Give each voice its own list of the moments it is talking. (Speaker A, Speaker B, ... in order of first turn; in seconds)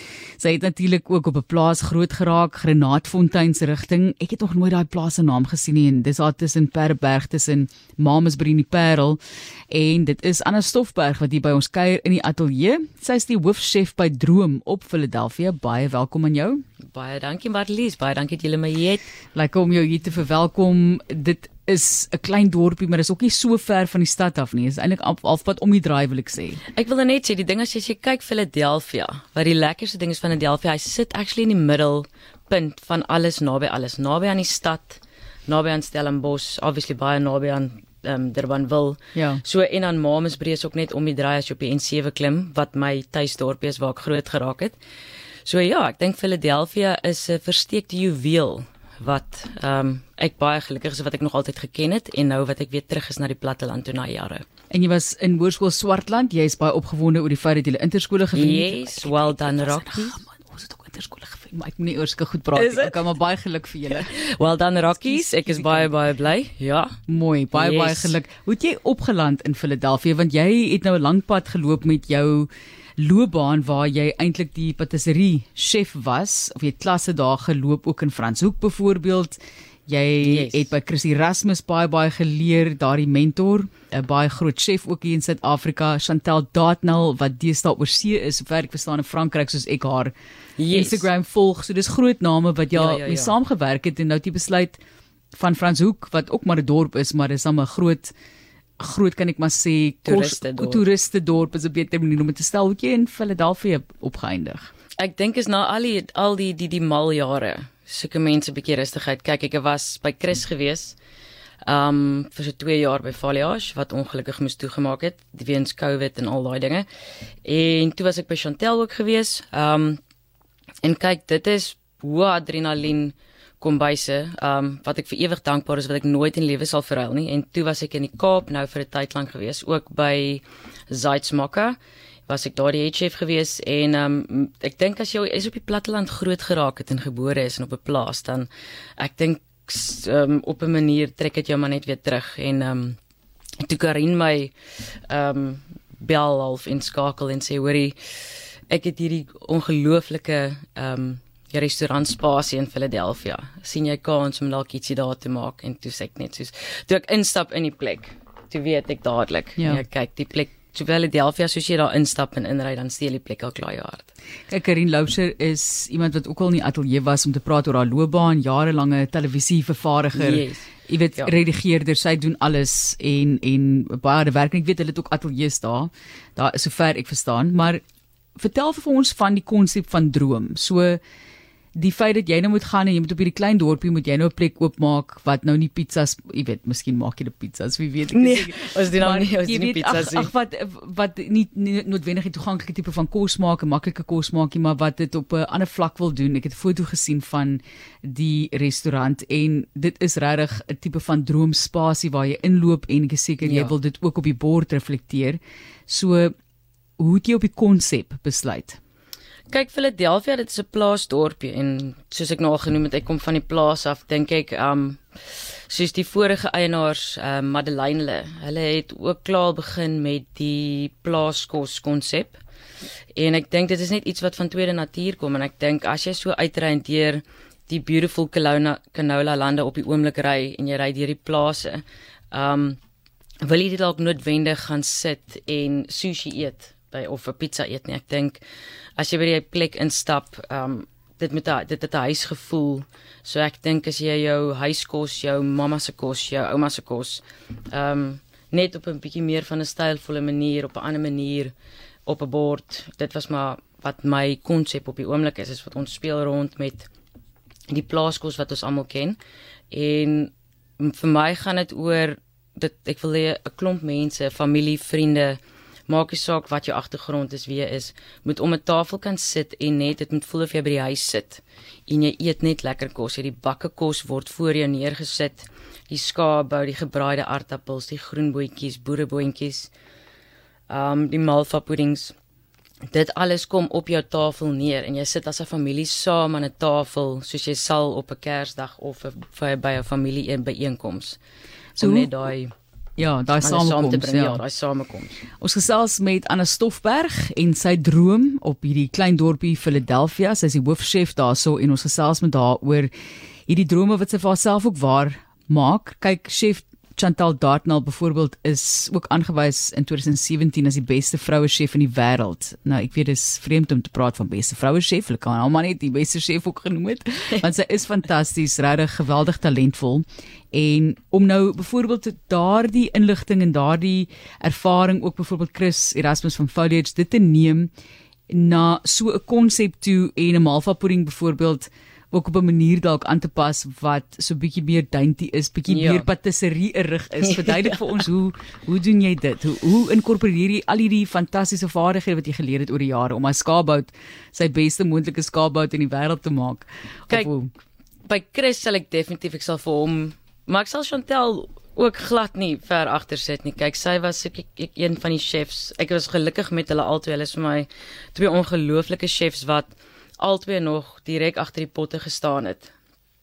Speaker A: 0.4-9.2, 9.7-16.6, 19.3-26.6, 39.1-39.4, 54.7-64.1, 65.0-65.9, 67.1-90.1, 90.7-94.8, 95.3-98.1, 98.8-104.7, 159.6-159.8, 164.5-177.8, 178.4-181.0, 181.7-206.3, 207.0-208.8, 291.8-292.1, 293.0-294.4, 295.4-302.9, 303.5-327.7, 328.3-347.5
Speaker B: 16.9-19.1, 26.7-44.8, 45.4-54.5, 58.3-60.2, 62.5-63.0, 63.9-67.0, 67.5-68.2, 80.2-80.7, 90.6-91.1, 92.7-93.3, 100.0-100.8, 105.0-111.0, 111.6-116.9, 117.4-120.0, 120.8-143.0, 143.6-164.1, 170.1-171.3, 188.1-190.3, 203.4-203.7, 209.5-222.4, 223.1-232.8, 233.4-238.4, 239.0-251.5, 252.1-256.9, 257.7-259.2, 259.7-279.7, 280.7-282.1, 282.9-291.2, 291.8-292.5, 293.4-295.2, 335.7-336.1, 337.2-337.8, 348.1-362.7